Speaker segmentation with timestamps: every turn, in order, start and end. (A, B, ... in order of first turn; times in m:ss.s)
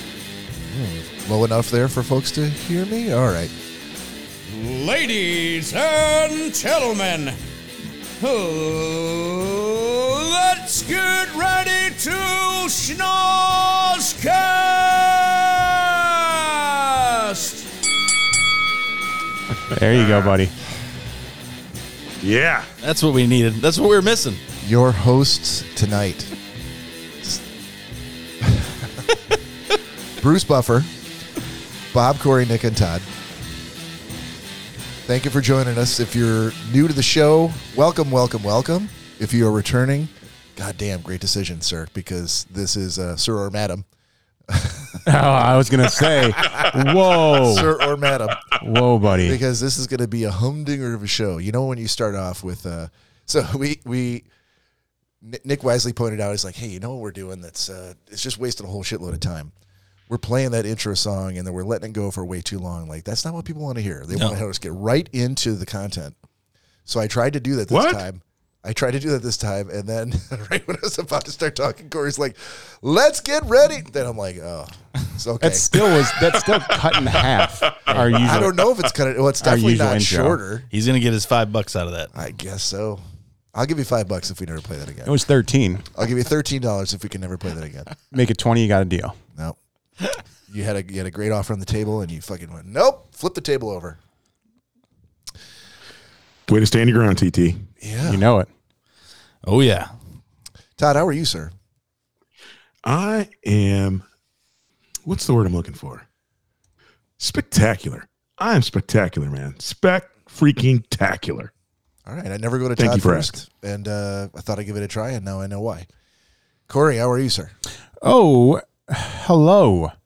0:00.7-0:03.5 A
0:04.5-0:07.4 B
0:08.2-0:17.7 B
0:19.7-0:20.5 C
0:19.9-0:20.4 D
0:22.2-0:22.7 D
0:22.8-0:24.4 E
0:24.6-0:26.3 A
0:28.4-0:29.1 A
0:30.2-0:30.9 A
0:31.9-0:33.1 A
0:35.0-0:43.8 A
0:44.5-0:45.1 A
0:45.0-0:47.7 C
0:46.5-0:54.2 A
0:48.5-0:49.4 C
0:55.2-0:59.5 A
1:00.1-1:06.2 A
1:04.1-1:04.4 E
1:06.8-1:15.6 A
1:07.7-1:08.0 D
1:15.4-1:18.6 C
1:15.8-1:18.7 D
1:18.0-1:20.7 A
1:19.4-1:20.4 C
1:20.7-1:22.1 E
1:22.1-1:23.0 A
1:23.5-1:25.1 A
1:25.0-1:25.8 C
1:25.9-1:27.9 A
1:28.1-1:29.2 C
1:30.5-1:34.0 A
1:36.5-1:37.6 D
1:37.8-1:38.2 A
1:38.0-1:38.5 C
1:39.4-1:39.9 E
1:40.8-1:41.5 A
1:42.8-1:44.0 D
1:45.0-1:46.0 D
1:47.2-1:51.5 D
1:52.0-1:55.9 A
1:52.8-1:53.3 D
1:56.7-1:57.5 A
1:58.0-1:59.9 C